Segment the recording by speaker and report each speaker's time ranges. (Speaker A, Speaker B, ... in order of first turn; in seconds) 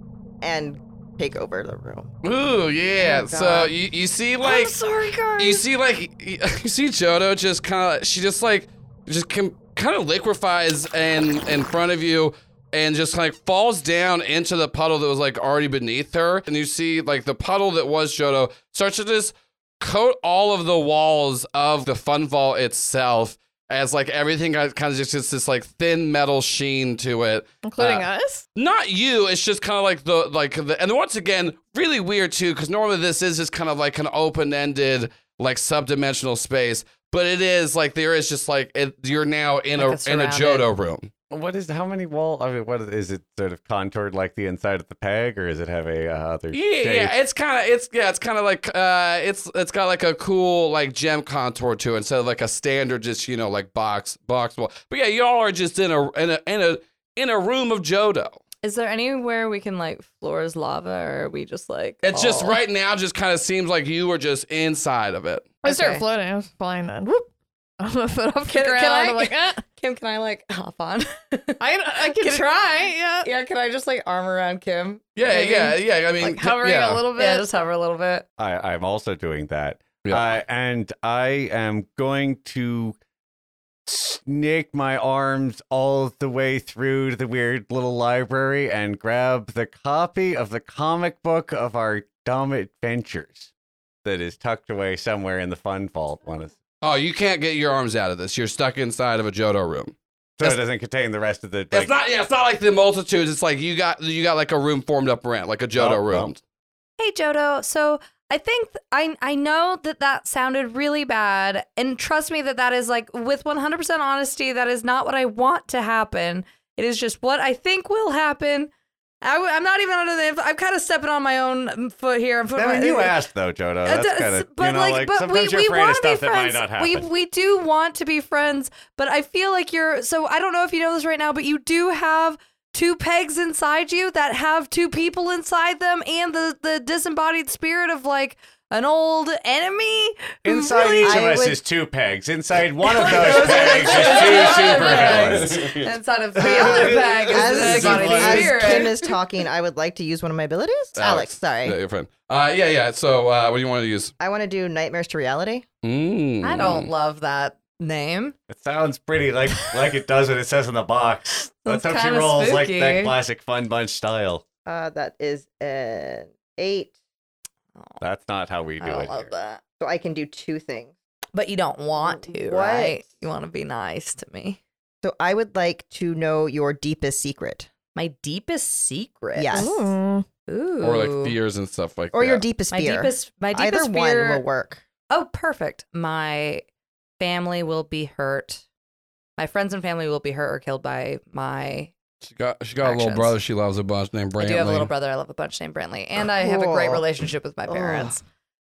Speaker A: 0.4-2.1, 140.7-141.5, 146.4-151.8, 154.2-155.6, 164.7-166.9, 169.8-170.9, 172.0-173.0, 175.0-177.7, 179.3-179.9, 182.1-184.8, 196.4-197.1, 197.7-198.2
Speaker B: 2.2-4.7, 5.4-41.1, 46.5-58.4, 62.0-65.5, 75.2-77.0, 96.8-100.6, 101.7-106.4, 143.1-145.9, 150.9-154.1, 155.8-156.9, 180.8-182.4, 192.2-194.9
Speaker C: 3.0-3.6, 4.4-5.6, 39.8-40.6, 58.6-62.6, 65.6-66.0, 68.5-75.7, 77.2-78.2, 107.0-118.7, 119.2-123.2, 123.8-141.6, 142.8-149.1, 156.4-158.3, 161.4-163.2, 168.8-169.6, 171.3-174.6, 177.9-179.8, 180.5-181.3, 182.7-184.4, 185.1-186.6, 187.2-188.6, 189.4-191.9, 192.8-193.3, 194.4-198.2
Speaker D: 27.6-28.4, 65.6-67.3, 67.8-69.6, 71.6-73.3, 75.3-75.6, 76.2-77.5, 179.5-180.2
Speaker E: 41.3-47.1, 78.4-83.0, 83.8-93.5, 94.0-96.5, 100.4-101.9, 105.7-106.3, 122.5-127.1, 140.4-145.8, 146.3-148.9, 158.5-164.4, 168.0-169.3